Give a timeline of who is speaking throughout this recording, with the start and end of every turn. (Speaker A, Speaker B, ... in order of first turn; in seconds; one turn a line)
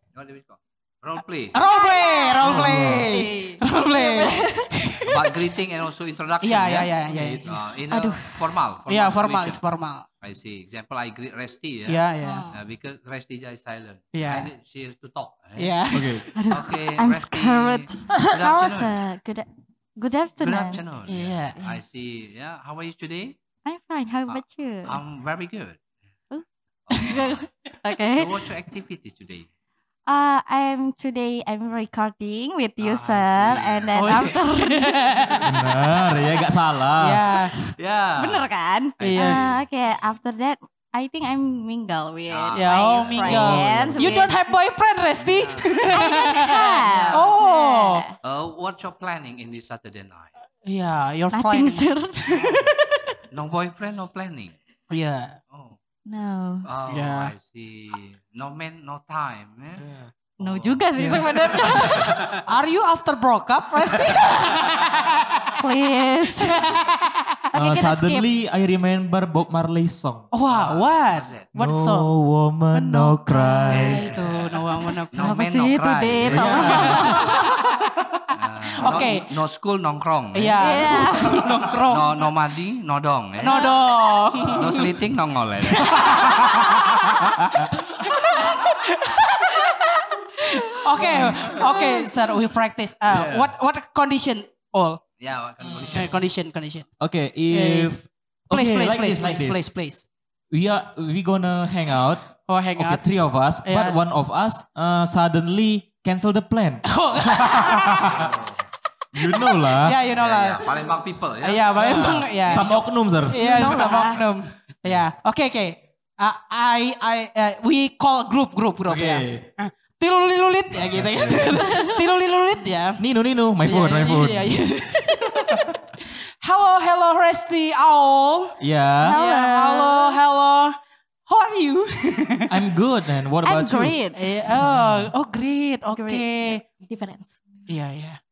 Speaker A: 0.1-1.6
Speaker B: 1.5-5.2
Speaker C: 1.7-4.7
Speaker D: 2.4-3.1
Speaker A: 2.4-2.7
Speaker A: 5.1-9.6
Speaker B: 6.4-7.5
Speaker C: 7.9-8.6
Speaker B: 8.9-10.1
Speaker A: 10.2-15.9
Speaker B: 11.9-12.4
Speaker C: 12.2-12.6
Speaker B: 14.1-14.5
Speaker B: 15.6-16.2
Speaker D: 15.9-16.2
Speaker C: 16.4-20.8
Speaker A: 16.5-19.0
Speaker A: 20.4-23.4
Speaker B: 21.1-21.6
Speaker C: 23.6-25.0
Speaker A: 24.3-25.8
Speaker A: 26.9-27.5
Speaker C: 27.0-28.4
Speaker A: 28.1-29.5
Speaker C: 30.1-35.1
Speaker A: 32.8-34.4
Speaker B: 33.9-35.5
Speaker D: 35.4-37.2
Speaker B: 37.0-37.6
Speaker A: 37.8-39.6
Speaker C: 38.2-44.6
Speaker B: 39.0-39.5
Speaker A: 42.3-44.2
Speaker B: 42.5-48.1
Speaker D: 43.3-43.8
Speaker A: 45.2-46.0
Speaker C: 45.9-48.1
Speaker A: 46.9-47.3
Speaker A: 48.2-50.3
Speaker B: 50.6-52.0
Speaker C: 51.3-52.8
Speaker A: 52.3-52.7
Speaker A: 53.3-54.5
Speaker B: 54.9-55.4
Speaker A: 55.5-55.8
Speaker C: 56.1-56.7
Speaker A: 56.6-59.8
Speaker B: 56.9-57.3
Speaker D: 59.8-60.1
Speaker C: 60.4-62.1
Speaker A: 60.4-62.3
Speaker B: 61.0-61.9
Speaker B: 62.5-65.6
Speaker C: 65.6-66.6
Speaker B: 66.4-67.3
Speaker A: 66.5-67.0
Speaker C: 67.5-68.3
Speaker D: 67.6-70.3
Speaker B: 70.3-72.1
Speaker A: 70.5-71.5
Speaker D: 71.5-74.0
Speaker B: 72.8-73.2
Speaker C: 73.0-74.0
Speaker A: 73.7-74.6
Speaker B: 73.8-75.3
Speaker A: 75.1-77.0
Speaker C: 75.2-77.3
Speaker D: 76.2-77.3
Speaker B: 76.4-77.6
Speaker A: 78.3-81.1
Speaker B: 78.8-79.2
Speaker B: 80.3-82.2
Speaker C: 80.6-81.3
Speaker A: 81.9-83.7
Speaker B: 83.4-84.9
Speaker C: 83.5-83.8
Speaker A: 84.5-86.4
Speaker B: 85.7-87.5
Speaker B: 88.0-95.0
Speaker C: 91.0-92.0
Speaker D: 91.1-91.5
Speaker A: 93.1-93.5
Speaker A: 95.2-96.2
Speaker B: 95.9-96.9
Speaker D: 97.0-99.6
Speaker B: 97.5-100.0
Speaker D: 100.5-108.2
Speaker B: 102.5-103.0
Speaker B: 103.6-104.0
Speaker B: 106.9-108.3
Speaker A: 108.1-108.6
Speaker D: 109.1-110.0
Speaker B: 109.3-110.7
Speaker A: 110.1-112.8
Speaker B: 111.4-123.0
Speaker D: 111.9-113.9
Speaker C: 113.3-114.2
Speaker D: 118.9-119.5
Speaker D: 120.9-121.6
Speaker C: 121.7-122.0
Speaker D: 123.0-124.6
Speaker B: 123.6-128.6
Speaker D: 128.6-129.2
Speaker C: 129.0-130.2
Speaker B: 129.1-130.8
Speaker B: 131.3-132.5
Speaker D: 132.5-134.0
Speaker C: 133.4-134.3
Speaker B: 134.2-136.6
Speaker C: 135.9-137.4
Speaker B: 137.7-138.2